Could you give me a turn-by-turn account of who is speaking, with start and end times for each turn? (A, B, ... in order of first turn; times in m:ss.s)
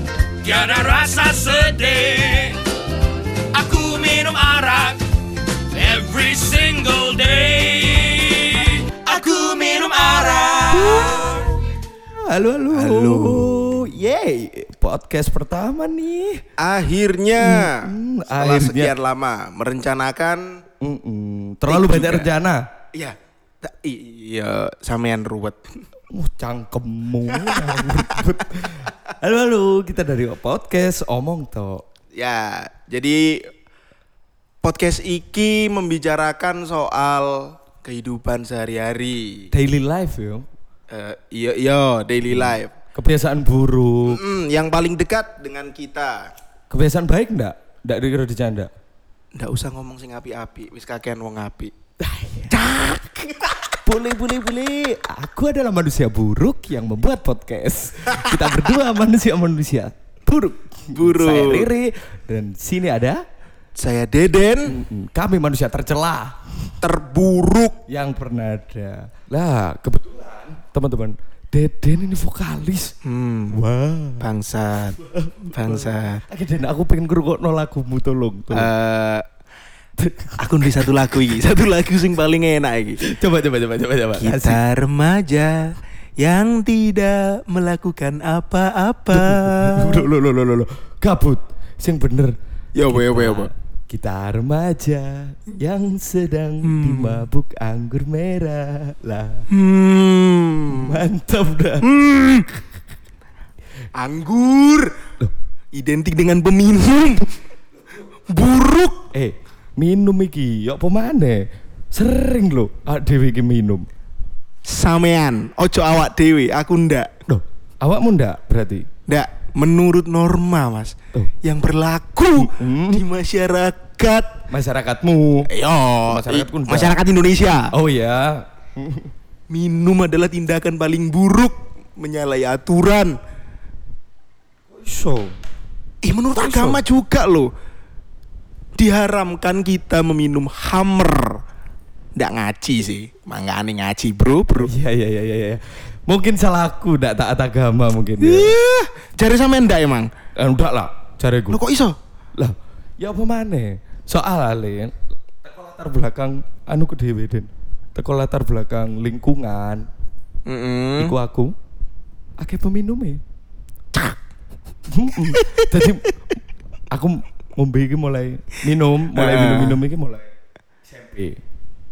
0:00.4-0:02.6 A
0:03.5-0:05.0 A
0:05.7-0:08.9 A
0:09.1-0:11.4 B
0:10.1-0:11.5 A
0:10.7-0:11.4 C
0:12.2-0:16.4 C
0:12.7-0:13.7 B
0:16.6-0:20.6 B
0:17.4-0:18.9 C
0:20.8-0:22.6 C
0:21.7-0:22.3 B
0:23.0-0:25.6 B
0:26.1-0:31.8 C
0:27.4-0:28.2 B
0:32.2-0:33.5 B
0:34.6-0:39.5 B
0:39.5-0:40.5 C
0:40.9-0:42.7 B
0:42.3-0:44.2 C
0:44.1-0:46.3 B
0:46.7-0:48.7 C
0:49.4-0:51.7 B
0:52.0-0:52.6 C
0:52.5-0:53.5 B
0:53.8-0:59.9 C
0:58.0-0:58.7 B
1:00.3-1:01.7 B
1:00.9-1:03.2 C
1:03.8-1:04.8 B
1:04.7-1:06.4 C
1:06.8-1:07.8 B
1:07.9-1:13.0 C
1:13.0-1:13.6 B
1:13.5-1:14.3 C
1:14.2-1:15.0 B
1:15.0-1:18.7 C
1:15.5-1:16.2 B
1:18.5-1:19.3 B
1:20.0-1:20.4 C
1:20.4-1:23.0 B
1:23.0-1:24.6 C
1:24.2-1:30.0 B
1:29.1-1:39.5 C
1:32.8-1:33.5 B
1:36.6-1:37.2 B
1:39.5-1:41.0 B
1:40.7-1:41.9 C
1:41.8-1:42.6 B
1:44.0-1:45.0 B
1:45.8-1:47.3 B
1:48.3-1:49.0 B
1:49.1-1:53.9 C
1:54.7-1:57.2 B
1:57.3-1:58.9 C
1:59.1-2:04.3 B
2:02.4-2:03.0 C
2:04.5-2:05.5 C
2:05.5-2:07.7 B
2:06.1-2:07.0 C
2:07.7-2:09.1 C
2:09.5-2:13.2 B
2:14.7-2:15.4 C
2:16.0-2:17.5 B
2:16.4-2:16.8 C
2:18.8-2:21.4 B
2:22.2-2:24.7 B
2:24.6-2:28.6 C
2:28.2-2:30.1 B
2:30.4-2:31.6 C
2:31.5-2:32.0 B
2:32.4-2:39.9 C
2:40.5-2:41.1 B
2:41.0-2:41.6 C
2:42.4-2:43.2 C
2:44.9-2:46.0 C
2:45.4-2:45.7 B
2:46.9-2:50.3 C
2:49.1-2:49.8 B
2:50.9-2:51.4 C